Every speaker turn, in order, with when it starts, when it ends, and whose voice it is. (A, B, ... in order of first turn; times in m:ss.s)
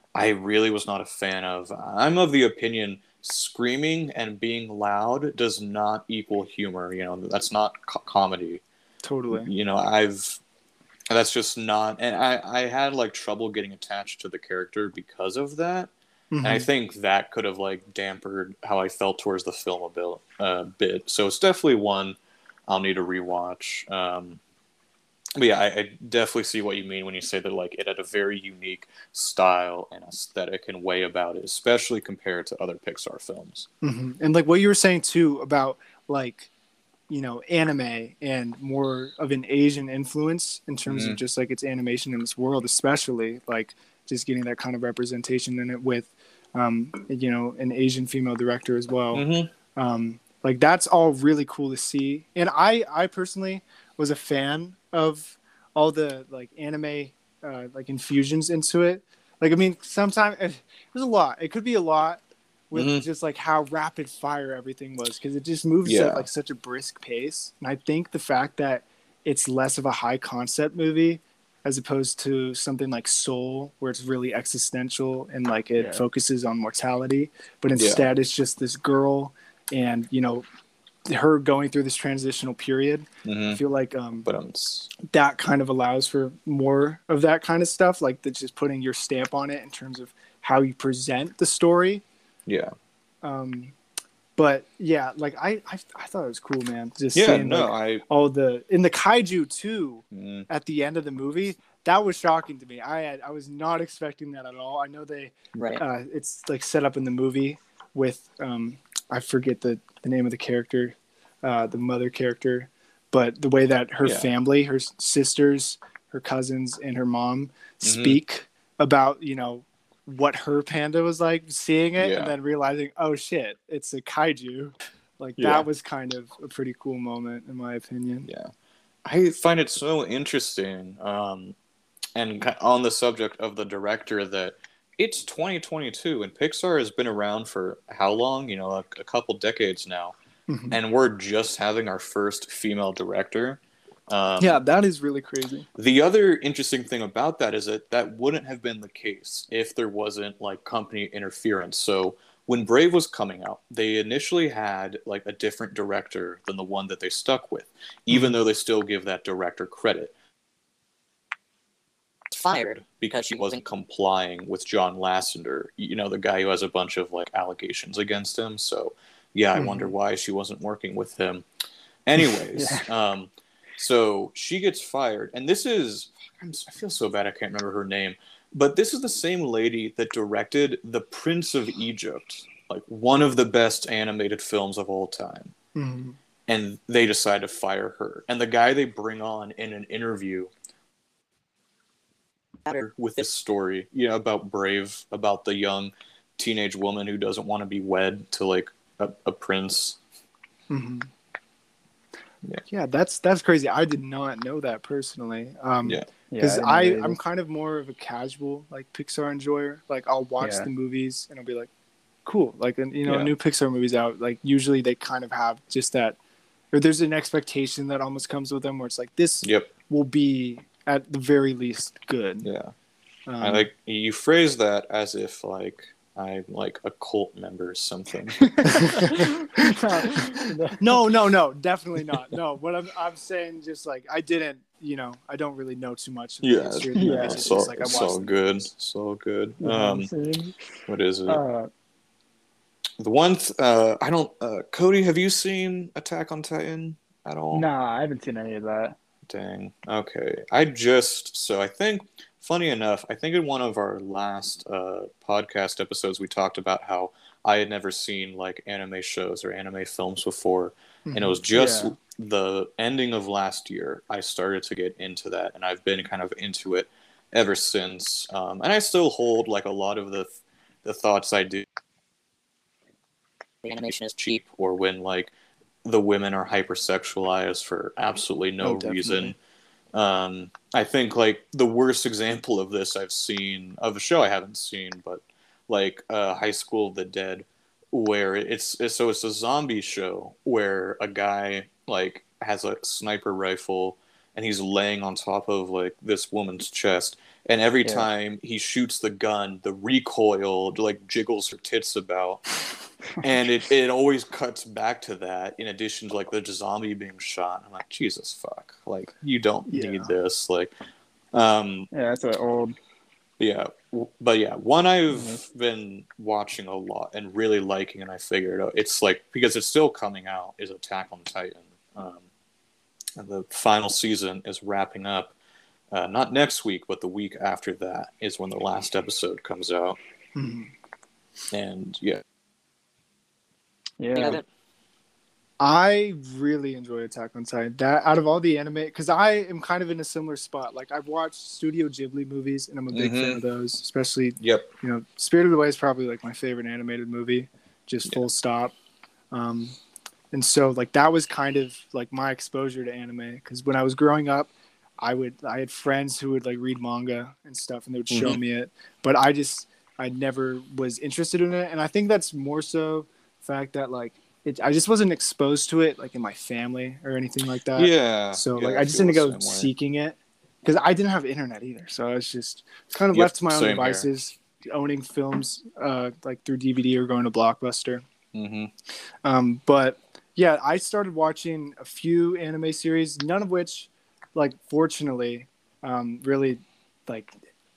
0:00.1-0:08.6 A
0:09.0-0:09.5 B
0:09.3-0:10.4 A
0:11.1-0:15.9 A
0:16.3-0:16.7 B
0:16.4-0:24.4 A
0:25.4-0:33.7 A
0:33.8-0:36.5 B
0:37.1-1:20.4 B
0:40.9-0:41.2 A
0:49.1-0:49.5 A
1:02.7-1:03.0 A
1:05.8-1:06.3 A
1:15.8-1:16.0 C
1:17.7-1:18.1 A
1:21.1-1:24.3 B
1:23.2-1:23.6 A
1:24.2-1:24.9 A
1:25.0-1:32.0 B
1:32.4-1:32.7 A
1:33.2-1:33.7 B
1:34.4-2:08.3 B
1:37.1-1:38.0 A
1:40.1-1:40.5 A
1:45.5-1:45.8 D
1:54.0-1:54.3 A
1:57.8-1:58.2 A
2:02.0-2:02.3 A
2:05.4-2:05.7 A
2:08.2-2:08.5 A
2:09.0-2:11.6 A
2:12.1-2:20.1 A
2:20.5-2:20.8 B
2:20.7-2:24.6 A
2:24.4-2:25.7 B
2:25.7-2:40.1 A
2:42.3-2:43.6 D
2:42.8-2:51.4 A
2:49.6-2:49.9 B
2:52.0-3:05.5 A
2:52.5-2:52.9 C
3:05.7-3:06.2 B
3:06.5-3:10.5 A
3:12.6-3:13.2 D
3:12.8-3:20.0 A
3:20.7-3:21.1 B
3:22.7-3:31.7 B
3:26.3-3:27.2 C
3:30.4-3:30.7 C
3:32.2-3:36.2 B
3:33.0-3:33.3 A
3:36.7-3:42.5 B
3:39.4-3:39.7 A
3:42.4-3:42.7 A
3:43.3-3:43.7 B
3:43.4-3:49.2 A
3:48.5-3:49.7 B
3:48.8-3:51.0 C
3:50.8-3:58.5 B
3:56.4-4:00.1 A
3:56.9-3:57.6 C
3:59.6-4:00.6 C
4:00.9-4:01.4 A
4:01.3-4:01.7 C
4:03.0-4:07.6 A
4:07.5-4:09.0 C
4:09.3-4:31.6 A
4:21.1-4:21.4 B
4:21.5-4:21.9 C
4:33.6-4:34.4 D
4:34.2-4:35.3 A
4:35.8-4:39.3 A
4:38.6-4:39.3 B
4:39.9-5:02.4 A
5:03.2-5:10.7 A
5:09.7-5:10.1 B
5:11.3-5:11.9 A
5:11.9-5:12.8 C
5:13.4-5:22.2 A
5:15.1-5:15.4 C
5:23.2-5:25.3 A
5:25.9-5:30.0 A
5:30.4-5:30.7 B
5:31.5-5:32.2 A
5:34.0-5:34.4 C
5:34.1-5:34.4 D
5:35.6-5:48.7 B
5:42.9-5:43.4 A
5:44.4-5:44.7 A
5:49.3-5:49.8 B
5:50.3-6:18.0 B
5:58.1-5:58.4 A
6:07.7-6:09.7 A
6:13.1-6:14.1 A
6:18.3-6:18.7 A
6:19.2-6:27.3 B